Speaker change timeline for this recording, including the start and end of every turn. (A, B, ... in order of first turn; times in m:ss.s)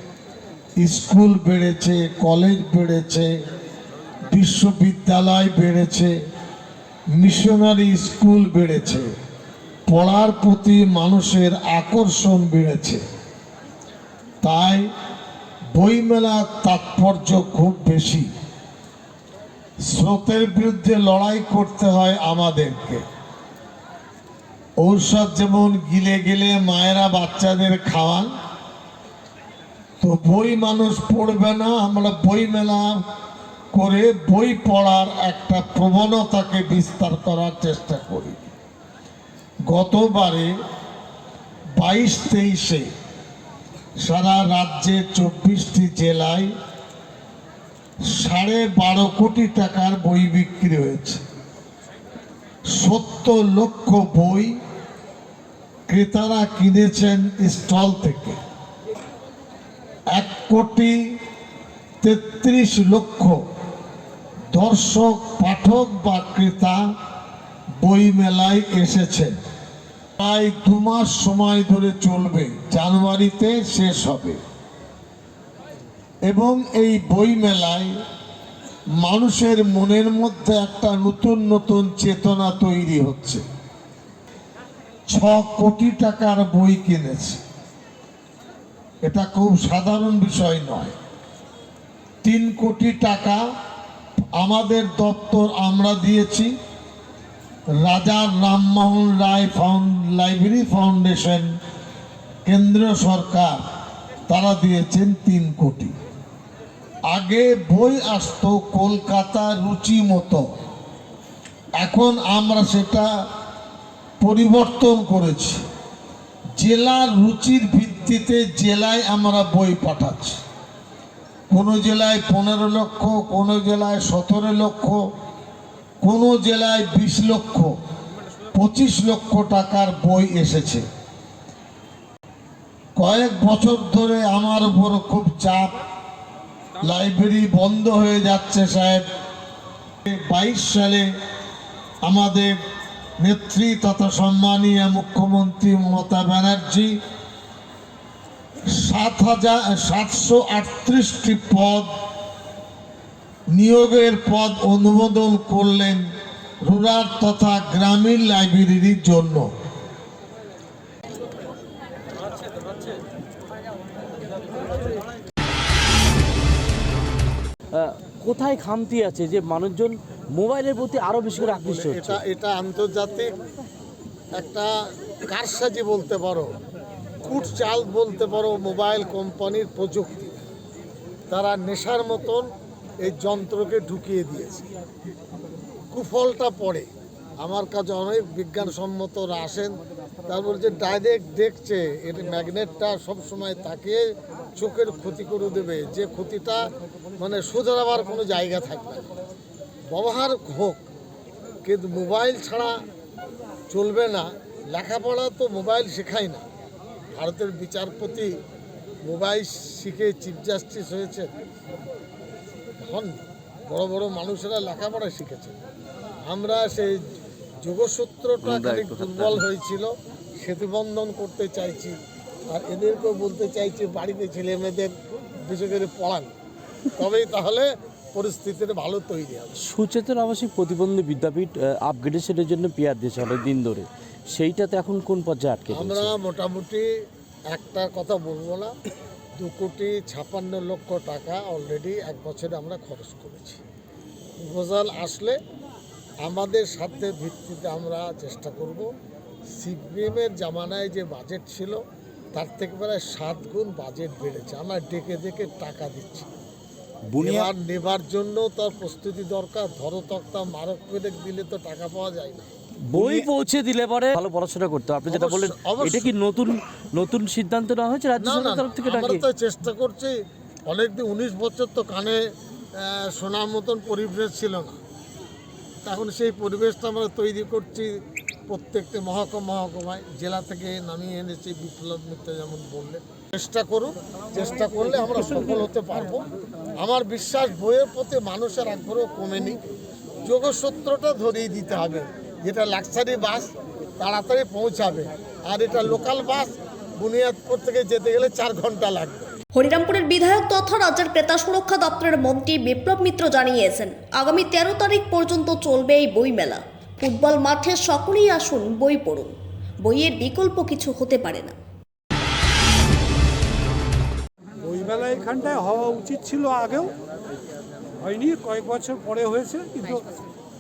0:00.8-0:03.3 A
0:04.2-0:06.1 A
0:07.2-0:09.1 A
0:09.9-0:13.0 A
0:14.4-0:14.9 A
0:15.8-0:18.3 A
0:19.9-0:23.0 A
0:24.8-0:28.3 A
0:30.0-0:33.0 A
0:33.7-0:38.4 A
0:39.7-0:40.5 A
0:41.8-0:42.9 A
0:44.0-0:46.5 A
0:48.1-0:51.2 A
0:52.7-0:54.6 A
0:55.9-0:58.4 A
1:00.1-1:01.1 A
1:02.0-1:03.4 A
1:04.5-1:06.8 A
1:07.8-1:09.4 A
1:10.2-1:14.4 A
1:16.3-1:17.9 A
1:19.0-1:23.4 A
1:25.1-1:27.4 A
1:29.0-1:30.9 A
1:32.2-1:33.4 A
1:34.4-1:36.5 A
1:37.8-1:41.5 A
1:42.4-1:43.6 A
1:44.3-1:45.9 A
1:47.1-1:50.5 A
1:51.8-1:53.1 A
1:54.2-1:55.6 A
1:56.6-2:00.4 A
2:01.5-2:05.0 A
2:06.0-2:07.7 A
2:08.5-2:10.8 A
2:13.0-2:15.8 A
2:16.8-2:19.0 A
2:20.0-2:21.1 A
2:22.0-2:22.6 A
2:23.2-2:26.9 A
2:28.7-2:31.9 A
2:33.5-2:36.1 A
2:36.6-2:39.4 A
2:47.7-2:52.2 B
2:51.4-2:53.3 A
2:54.4-2:54.7 A
2:55.2-2:56.5 A
2:57.2-3:00.4 A
3:01.3-3:02.5 A
3:03.0-3:04.6 A
3:05.9-3:06.9 A
3:07.4-3:16.6 A
3:17.2-3:19.1 A
3:19.9-3:20.8 A
3:21.6-3:22.8 A
3:23.7-3:26.4 A
3:27.2-3:28.3 A
3:29.1-3:31.3 A
3:32.8-3:35.5 A
3:36.3-3:37.0 A
3:37.6-3:42.0 A
3:38.4-3:39.4 B
3:42.5-3:44.9 A
3:45.5-3:46.3 A
3:47.0-3:49.6 A
3:49.6-3:56.1 B
3:55.7-3:56.8 A
3:57.5-3:58.7 A
3:59.4-4:03.6 A
4:04.4-4:05.4 A
4:06.2-4:08.9 A
4:09.6-4:11.8 A
4:12.3-4:16.3 A
4:17.1-4:17.5 B
4:17.2-4:23.3 A
4:22.9-4:29.2 B
4:25.1-4:26.1 A
4:28.2-4:30.2 A
4:30.7-4:32.2 A
4:32.8-4:34.8 A
4:35.8-4:37.9 A
4:38.5-4:46.2 A
4:46.8-4:49.6 A
4:50.2-4:59.3 A
4:59.5-5:09.3 C
5:09.8-5:11.5 C
5:14.6-5:16.9 D
5:18.0-5:20.0 D